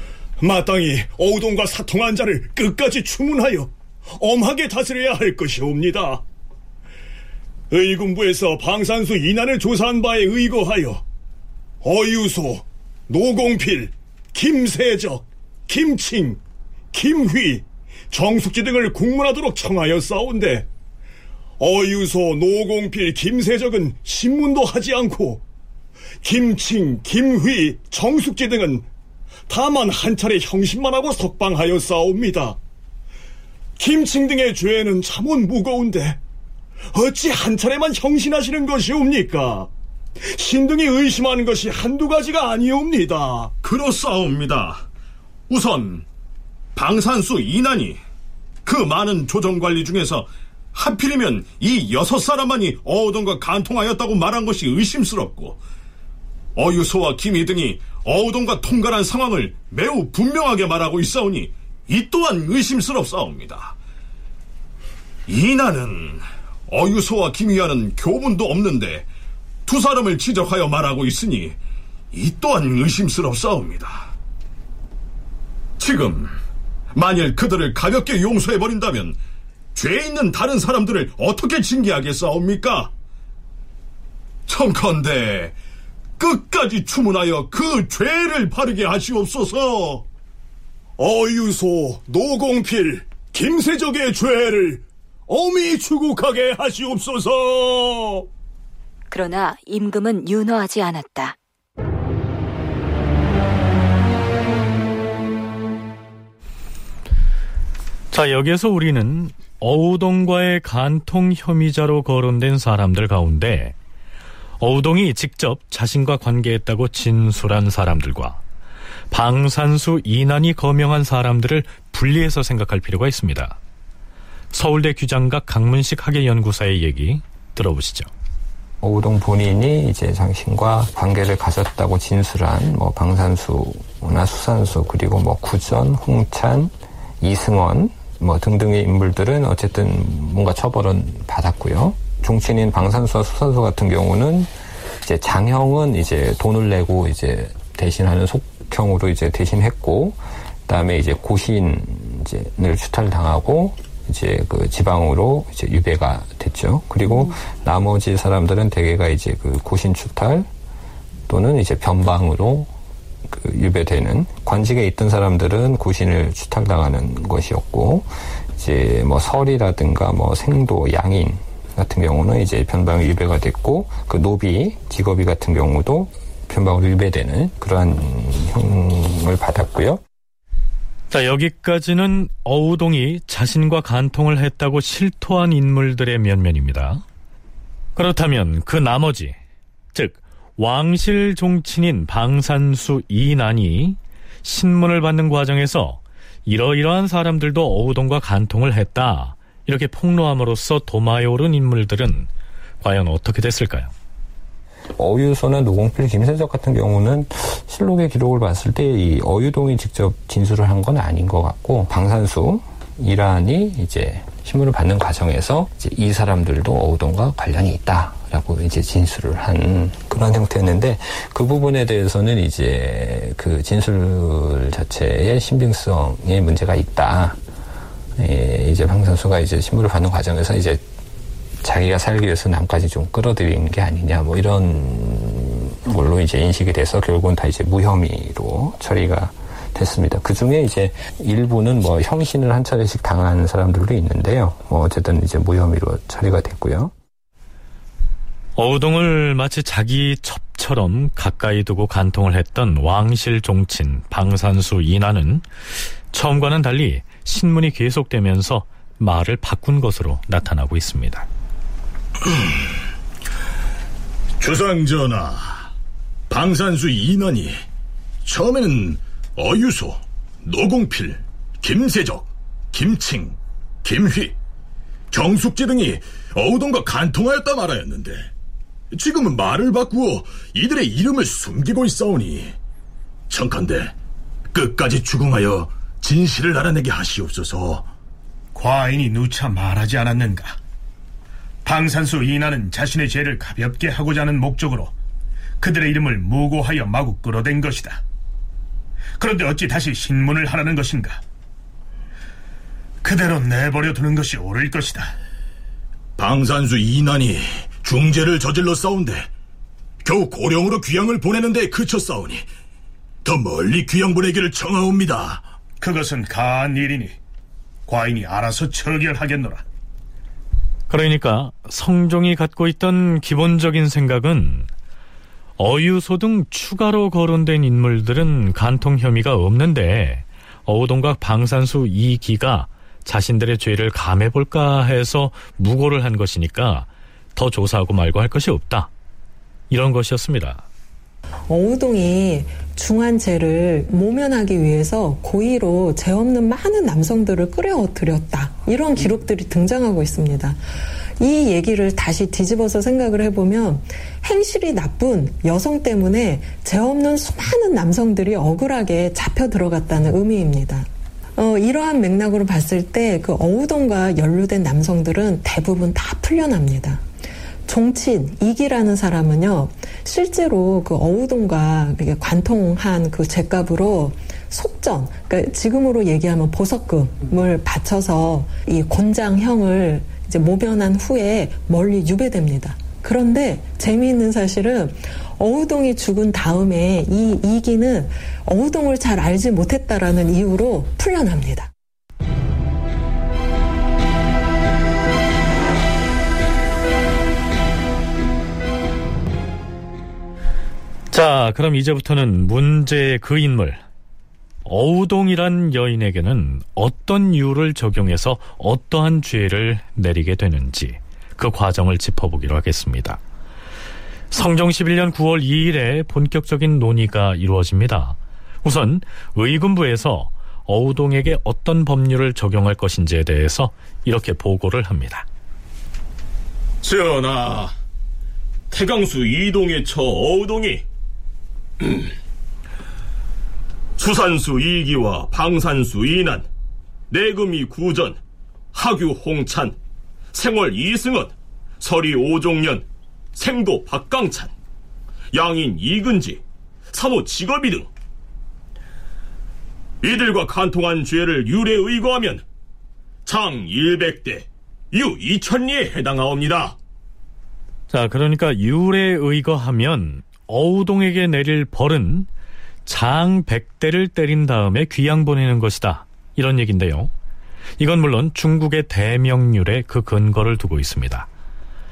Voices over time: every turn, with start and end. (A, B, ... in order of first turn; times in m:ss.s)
0:00.4-0:06.2 A
0:07.7-0:11.0 A
0:11.8-0:16.4 A
0:16.9-0:20.7 A
0:21.6-0:25.4 A
0:26.2-0:28.9 A
0:29.5-0:32.6 A
0:33.8-0:36.2 A
0:36.9-0:39.7 A
0:40.2-0:43.5 A
0:43.6-0:44.8 B
0:45.5-0:46.0 B
0:46.8-0:48.0 B
0:48.6-0:55.6 B
0:56.6-1:03.8 B
1:05.3-1:09.1 B
1:09.6-1:11.6 B
1:12.1-1:14.1 B
1:15.8-1:16.4 B
1:16.9-1:19.2 B
1:19.8-1:22.9 B
1:24.5-1:25.6 B
1:26.2-1:30.0 B
1:31.0-1:38.2 A
1:39.1-1:41.4 C
1:48.1-1:53.8 D
1:54.6-1:58.4 D
1:59.1-2:03.6 D
2:04.5-2:08.1 D
2:08.8-2:24.5 E
2:25.0-2:40.5 E
2:41.3-2:42.7 E
2:43.3-3:00.0 E
3:01.1-3:07.0 D
3:08.0-3:09.4 D
3:09.9-3:22.3 D
3:22.8-3:23.9 D
3:25.0-3:47.4 E
3:48.2-3:50.8 E
3:51.6-4:06.9 E
4:08.6-4:15.5 D
4:16.1-4:21.3 D
4:24.7-4:25.1 B
4:26.4-4:27.4 B
4:28.3-4:32.8 B
4:33.8-4:34.2 B
4:35.1-4:38.0 B
4:38.9-4:42.5 B
4:48.6-4:50.6 F
4:51.6-4:54.9 F
4:55.6-4:58.0 F
4:59.2-5:01.2 F
5:03.0-5:05.1 F
5:10.1-5:11.0 B
5:13.3-5:14.7 B
5:15.8-5:17.2 F
5:17.9-5:19.6 F
5:20.9-5:24.7 D
5:25.6-5:38.9 D
5:39.7-5:40.6 D
5:41.5-5:50.6 G
5:51.2-6:07.0 G
6:07.7-6:31.7 G
6:41.1-6:43.8 D
6:44.6-6:53.2 D
6:54.3-7:05.3 D
7:06.8-7:07.7 H
7:08.7-7:10.8 H
7:14.0-7:16.5 H
7:17.1-7:18.2 H
7:18.7-7:19.8 H
7:20.3-7:24.5 H
7:25.3-7:27.9 H
7:30.0-7:32.4 H
7:33.3-7:36.8 H
7:37.9-7:42.3 D
7:42.8-7:47.1 D
7:47.8-7:51.3 D